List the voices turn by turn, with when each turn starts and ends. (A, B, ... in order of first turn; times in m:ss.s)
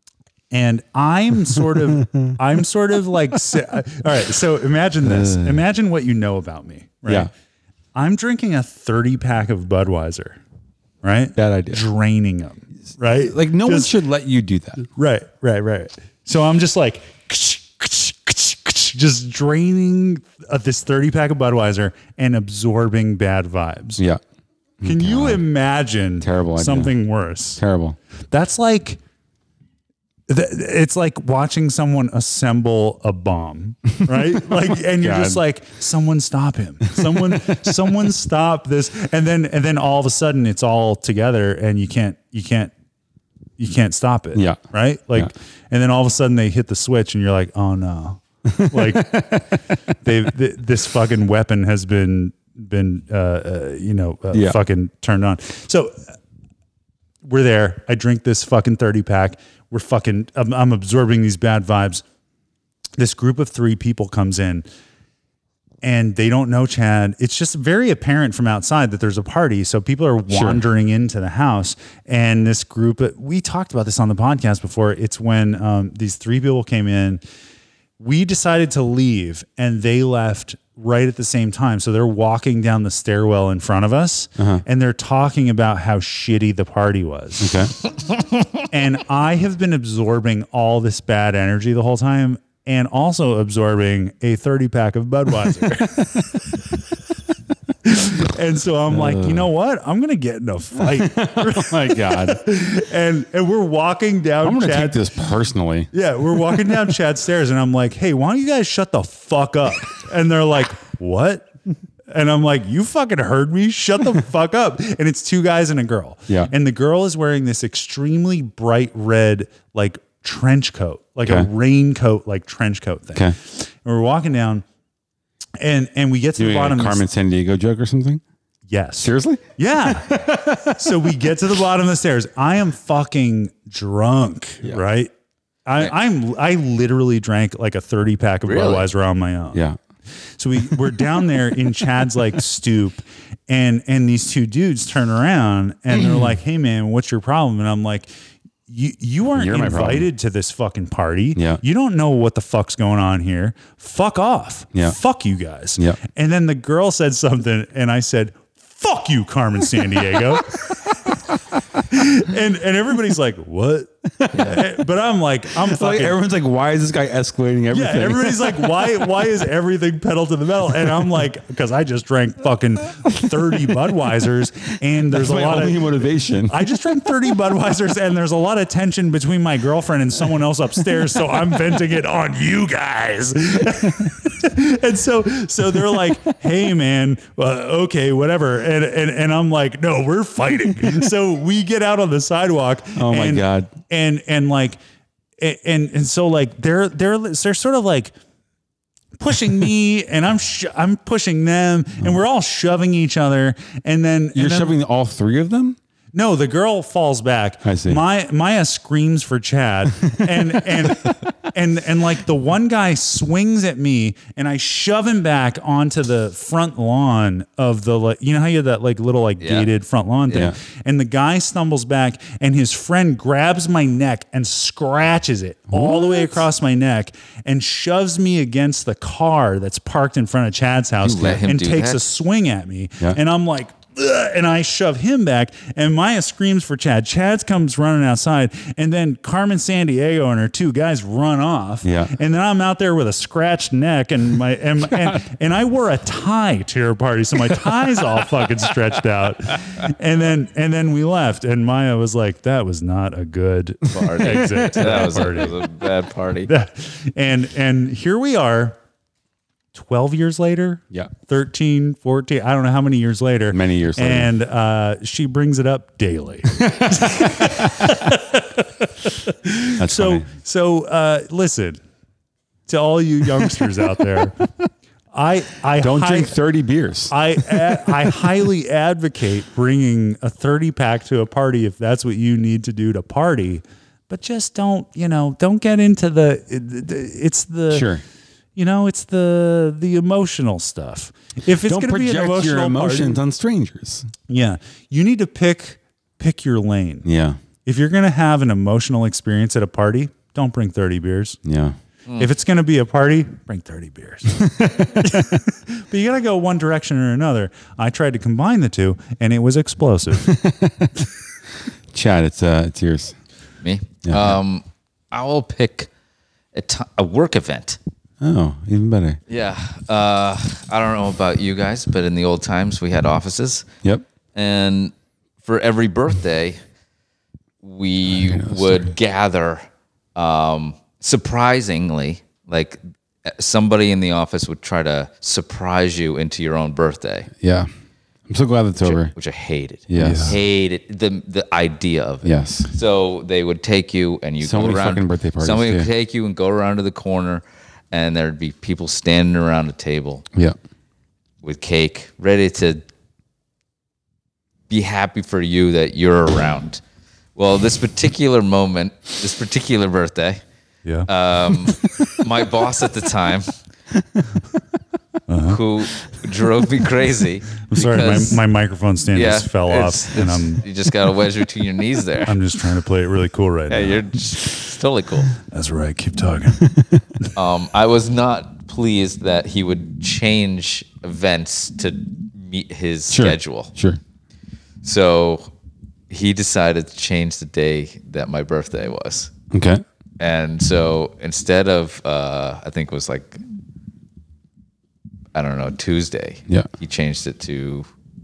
0:00.5-0:07.3 A
0:02.0-0:02.3 B
0:05.0-0:05.6 B
0:07.9-0:10.4 A
0:11.0-0:13.9 A
0:11.4-0:11.8 B
0:13.2-0:14.8 B
0:14.9-0:24.0 A
0:24.8-0:25.4 B
0:24.8-0:27.6 A
0:26.2-0:26.9 B
0:27.6-0:28.0 B
0:28.3-0:29.0 A
0:30.3-0:42.7 A
0:34.1-0:35.4 B
0:43.6-0:49.4 A
0:44.3-0:44.6 B
0:48.4-0:49.5 B
0:50.0-0:56.0 A
0:54.3-0:54.6 B
0:57.2-1:02.0 A
1:03.0-1:04.7 A
1:05.8-1:17.2 A
1:10.3-1:10.6 B
1:18.0-1:27.6 A
1:24.4-1:24.6 B
1:27.4-1:27.7 B
1:28.7-1:36.3 A
1:37.8-1:45.0 A
1:38.9-1:39.5 B
1:40.8-1:42.5 B
1:44.4-1:45.9 B
1:45.9-1:51.5 A
1:46.5-1:46.7 B
1:52.1-2:04.6 A
2:05.6-2:07.0 A
2:06.4-2:08.2 B
2:08.7-2:15.1 A
2:09.0-2:10.8 B
2:15.6-2:19.6 A
2:18.4-2:18.9 C
2:20.4-2:28.1 A
2:25.9-2:26.3 B
2:28.7-2:40.6 A
2:29.4-2:30.1 B
2:31.4-2:31.6 B
2:41.8-2:46.2 A
2:44.2-2:44.6 B
2:44.3-2:44.6 C
2:45.6-2:49.0 B
2:47.7-3:14.8 A
2:55.1-2:56.7 B
3:05.8-3:06.2 B
3:12.9-3:13.7 B
3:15.4-3:18.1 A
3:19.2-3:24.7 A
3:24.3-3:25.8 B
3:26.1-4:15.6 A
3:27.6-3:28.0 B
3:39.4-3:39.7 C
3:45.7-3:46.4 B
3:51.0-3:52.0 C
4:01.8-4:02.1 B
4:13.9-4:16.5 C
4:14.2-4:15.1 B
4:16.4-4:18.8 A
4:19.7-4:31.8 A
4:23.5-4:24.3 B
4:26.6-4:27.9 B
4:29.8-4:30.3 B
4:32.7-4:34.4 A
4:35.1-4:36.3 A
4:35.8-4:38.0 B
4:37.1-4:47.9 A
4:47.7-4:48.0 B
4:48.6-4:53.2 A
4:51.6-4:54.1 B
4:54.3-4:57.0 A
4:57.0-4:57.4 B
4:57.6-5:01.4 A
5:01.4-5:01.8 B
5:02.2-5:10.3 A
5:04.4-5:05.1 B
5:10.2-5:11.0 B
5:11.9-5:13.2 B
5:13.6-5:15.9 C
5:14.0-5:14.4 B
5:16.5-5:17.8 C
5:18.2-5:19.2 B
5:19.3-5:23.7 C
5:24.3-5:26.6 C
5:27.6-5:37.3 C
5:28.1-5:28.9 B
5:37.4-5:37.7 B
5:38.3-5:39.1 B
5:38.8-5:50.2 C
5:39.9-5:40.4 B
5:40.0-5:40.4 A
5:42.2-5:42.7 B
5:44.4-5:45.9 B
5:51.4-5:52.8 C
5:54.7-5:56.8 C
5:57.4-6:00.4 C
6:01.1-6:03.5 C
6:05.3-6:05.6 A
6:05.5-6:08.4 C
6:07.7-6:10.6 A
6:09.1-6:12.4 C
6:12.2-6:14.0 A
6:13.7-6:15.3 C
6:15.5-6:16.7 A
6:16.7-6:17.0 B
6:17.3-6:23.7 C
6:23.1-6:24.0 B
6:24.8-6:25.5 C
6:26.1-6:29.3 C
6:29.5-6:29.8 B
6:30.2-6:33.4 C
6:35.3-6:37.9 C